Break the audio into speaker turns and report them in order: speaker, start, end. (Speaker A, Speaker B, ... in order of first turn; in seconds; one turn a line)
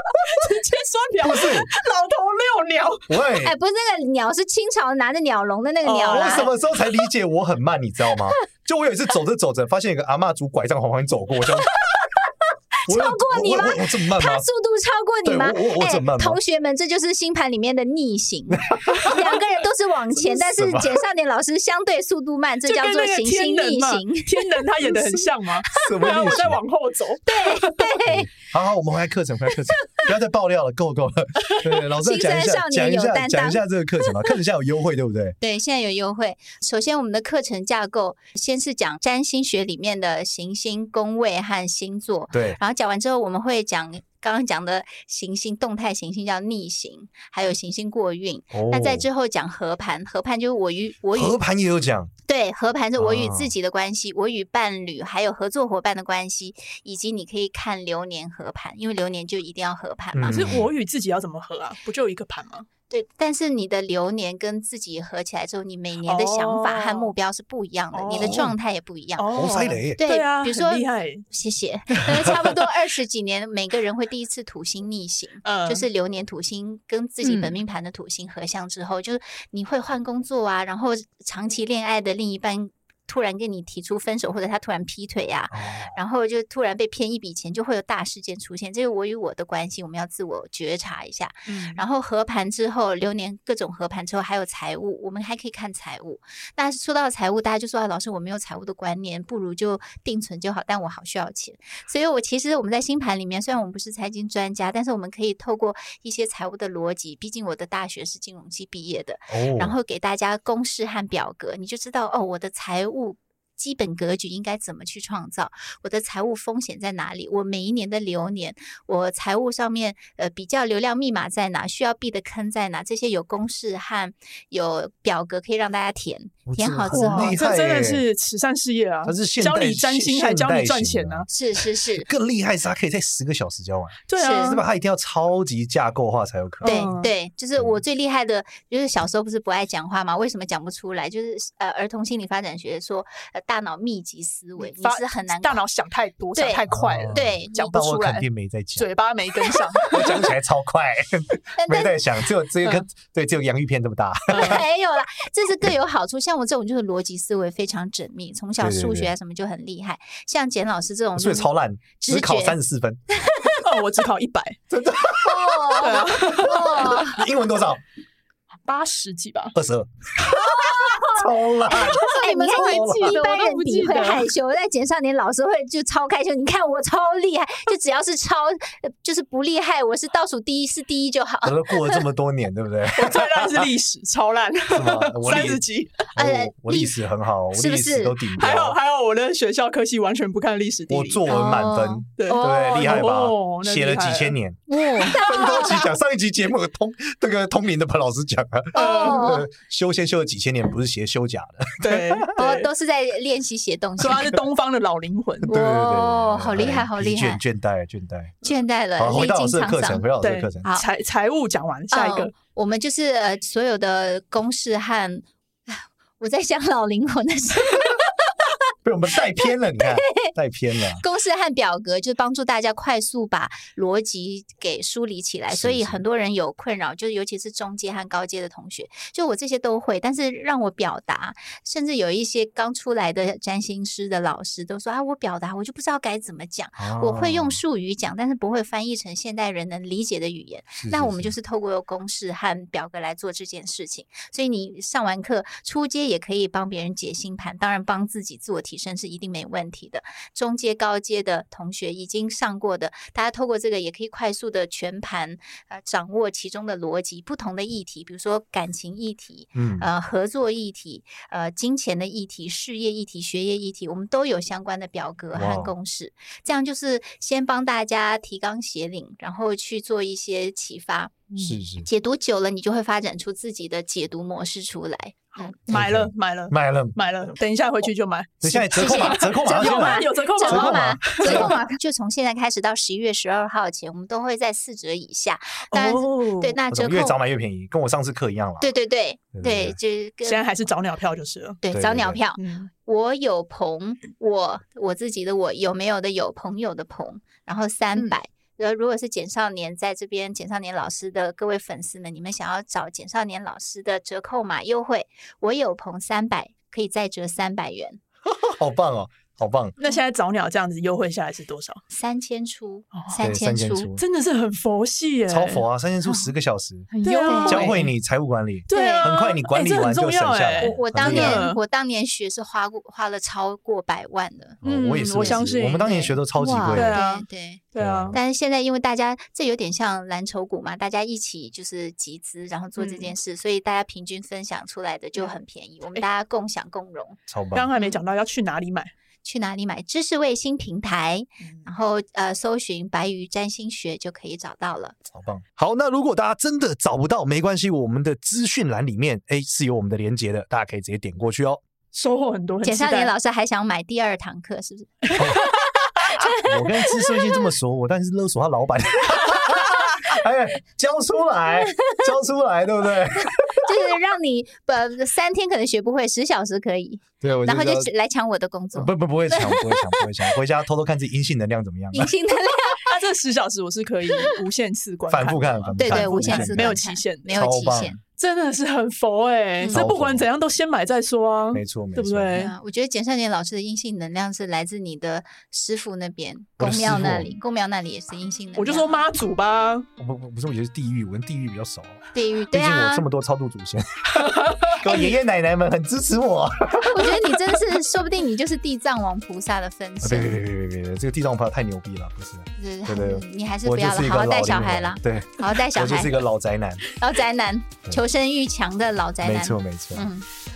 Speaker A: 0.1-3.1
Speaker B: 1.2-1.7
Speaker B: 3.1-3.5
Speaker C: 3.4-6.5
Speaker A: 5.8-6.5
Speaker B: 6.0-11.8
Speaker C: 11.9-12.3
Speaker C: 12.8-24.6
Speaker B: 12.9-14.4
Speaker B: 15.2-16.4
Speaker B: 18.5-19.4
Speaker B: 20.1-21.0
Speaker A: 22.6-27.9
Speaker B: 25.7-26.6
Speaker C: 27.3-28.3
Speaker B: 28.0-35.4
Speaker C: 32.0-33.6
Speaker C: 35.4-51.4
Speaker B: 42.3-42.6
Speaker B: 48.5-49.1
Speaker B: 51.1-52.1
Speaker C: 52.3-60.5
Speaker B: 53.0-53.5
Speaker B: 60.1-60.7
Speaker A: 60.3-62.7
Speaker C: 62.9-69.3
Speaker A: 66.0-67.1
Speaker A: 67.9-68.5
Speaker B: 68.1-68.5
Speaker A: 69.2-71.3
Speaker B: 69.3-70.0
Speaker C: 69.9-127.4
Speaker A: 75.4-75.8
Speaker A: 77.2-77.6
Speaker B: 85.5-86.0
Speaker A: 91.5-91.8
Speaker B: 109.3-109.8
Speaker B: 126.5-128.0
Speaker A: 126.9-131.3
Speaker B: 129.1-131.3
Speaker C: 131.3-132.1
Speaker B: 131.9-136.9
Speaker A: 134.1-134.6
Speaker C: 134.2-134.6
Speaker A: 136.6-137.1
Speaker C: 136.6-145.6
Speaker A: 144.6-150.3
Speaker C: 146.3-147.6
Speaker B: 146.7-148.9
Speaker B: 149.8-154.6
Speaker C: 151.6-152.0
Speaker C: 154.3-162.6
Speaker A: 154.3-154.6
Speaker B: 158.6-159.1
Speaker B: 161.2-163.0
Speaker C: 163.2-163.6
Speaker A: 163.6-164.6
Speaker B: 164.7-167.8
Speaker C: 165.2-167.2
Speaker A: 165.8-166.8
Speaker A: 168.6-169.6
Speaker B: 169.5-173.2
Speaker C: 170.3-182.0
Speaker A: 172.9-174.2
Speaker D: 173.2-174.1
Speaker B: 181.4-183.7
Speaker A: 182.9-186.1
Speaker B: 184.7-188.8
Speaker C: 186.1-187.0
Speaker C: 187.5-188.2
Speaker A: 188.4-191.2
Speaker B: 190.9-202.3
Speaker C: 191.3-192.1
Speaker A: 192.2-194.4
Speaker D: 192.3-192.6
Speaker D: 194.7-195.4
Speaker C: 195.1-195.8
Speaker A: 198.7-199.4
Speaker C: 198.7-199.5
Speaker A: 201.8-202.7
Speaker C: 202.3-204.4
Speaker A: 204.0-205.5
Speaker B: 205.4-208.4
Speaker C: 205.5-207.4
Speaker C: 208.4-210.1
Speaker B: 209.0-210.6
Speaker A: 210.2-212.3
Speaker C: 211.9-218.1
Speaker B: 218.8-221.0
Speaker C: 219.9-220.3
Speaker C: 221.0-275.6
Speaker B: 225.5-226.0
Speaker B: 236.8-237.6
Speaker B: 240.8-241.3
Speaker B: 259.6-259.9
Speaker B: 265.3-265.7
Speaker B: 271.4-271.9
Speaker A: 275.4-281.6
Speaker B: 275.7-277.0
Speaker B: 278.4-281.6
Speaker C: 278.7-287.2
Speaker A: 285.7-286.6
Speaker B: 286.7-288.7
Speaker C: 288.6-290.4
Speaker B: 289.3-289.8
Speaker A: 290.2-291.6
Speaker C: 291.6-308.0
Speaker B: 291.7-292.2
Speaker A: 292.4-292.7
Speaker B: 308.2-309.7
Speaker A: 309.8-311.8
Speaker C: 311.9-313.9
Speaker A: 312.9-313.2
Speaker B: 313.1-314.0
Speaker A: 314.0-315.6
Speaker B: 315.3-316.9
Speaker D: 316.9-317.6
Speaker A: 317.0-317.9
Speaker C: 317.2-317.7
Speaker B: 317.4-321.5
Speaker A: 318.7-321.6
Speaker C: 318.7-319.2
Speaker C: 320.6-324.6
Speaker B: 324.6-327.0
Speaker A: 324.6-326.0
Speaker C: 325.2-326.2
Speaker D: 326.4-326.9
Speaker A: 326.7-328.2
Speaker C: 326.9-337.2
Speaker B: 327.8-328.2
Speaker A: 332.8-333.1
Speaker B: 337.3-337.7
Speaker A: 337.5-338.9
Speaker C: 339.2-345.0
Speaker B: 345.1-351.6
Speaker A: 351.9-353.1
Speaker C: 352.6-357.3
Speaker B: 355.1-355.5
Speaker B: 356.4-363.7
Speaker C: 363.6-370.1
Speaker B: 367.2-367.9
Speaker B: 368.7-372.1
Speaker C: 371.9-372.9
Speaker A: 372.8-377.3
Speaker B: 375.1-378.0
Speaker C: 375.8-378.0
Speaker A: 378.2-382.5
Speaker B: 379.7-380.3
Speaker B: 381.5-382.4
Speaker C: 382.3-389.0
Speaker B: 386.6-387.3
Speaker A: 388.6-389.9
Speaker B: 390.0-397.6
Speaker C: 392.1-393.1
Speaker A: 394.1-395.1
Speaker C: 396.8-400.3
Speaker B: 400.0-406.8
Speaker C: 402.6-406.2
Speaker C: 406.9-410.2
Speaker B: 409.2-410.1